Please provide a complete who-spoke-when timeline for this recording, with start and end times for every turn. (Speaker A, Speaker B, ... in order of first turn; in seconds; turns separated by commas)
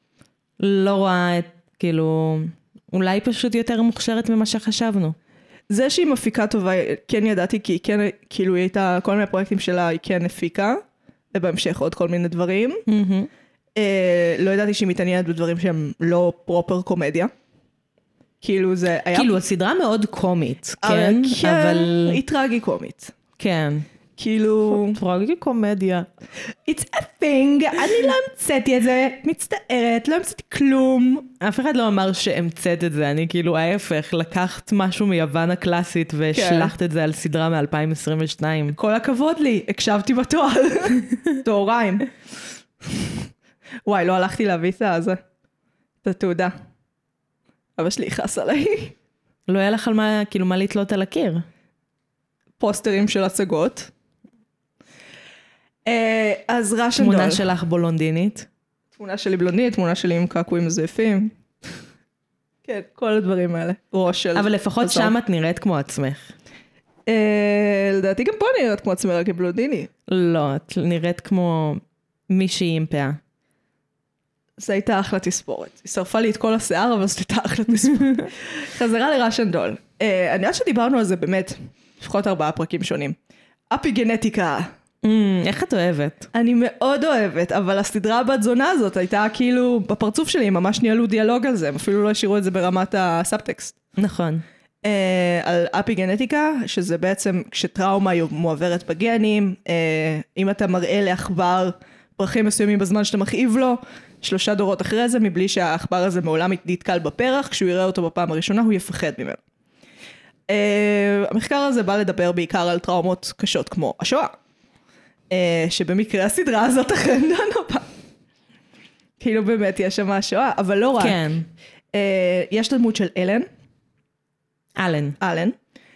Speaker A: 0.6-5.2, Speaker B: 5.7-12.8, Speaker A: 12.9-13.3, Speaker B: 13.8-17.3, Speaker B: 18.4-19.4, Speaker A: 19.1-22.2, Speaker B: 20.8-23.1, Speaker A: 23.4-23.9, Speaker B: 24.2-25.0, Speaker A: 24.7-26.1, Speaker B: 26.7-31.3, Speaker A: 31.4-38.8, Speaker B: 36.3-36.7, Speaker B: 38.8-42.1, Speaker B: 43.9-45.2, Speaker B: 46.0-46.5, Speaker B: 47.8-49.0, Speaker A: 49.5-51.5, Speaker B: 52.6-53.9, Speaker B: 55.9-57.5, Speaker A: 57.0-58.5, Speaker B: 59.0-61.3, Speaker B: 62.7-65.1, Speaker A: 64.3-66.3, Speaker B: 67.1-69.9, Speaker A: 70.1-73.2, Speaker B: 74.6-83.2, Speaker B: 83.7-84.7, Speaker A: 85.0-86.3, Speaker B: 86.3-93.8, Speaker A: 94.0-94.4, Speaker B: 94.8-109.4, Speaker B: 110.5-114.3, Speaker B: 115.3-117.9, Speaker B: 119.2-121.2, Speaker A: 121.0-121.5, Speaker B: 121.9-123.5, Speaker A: 124.8-125.2, Speaker B: 125.2-125.6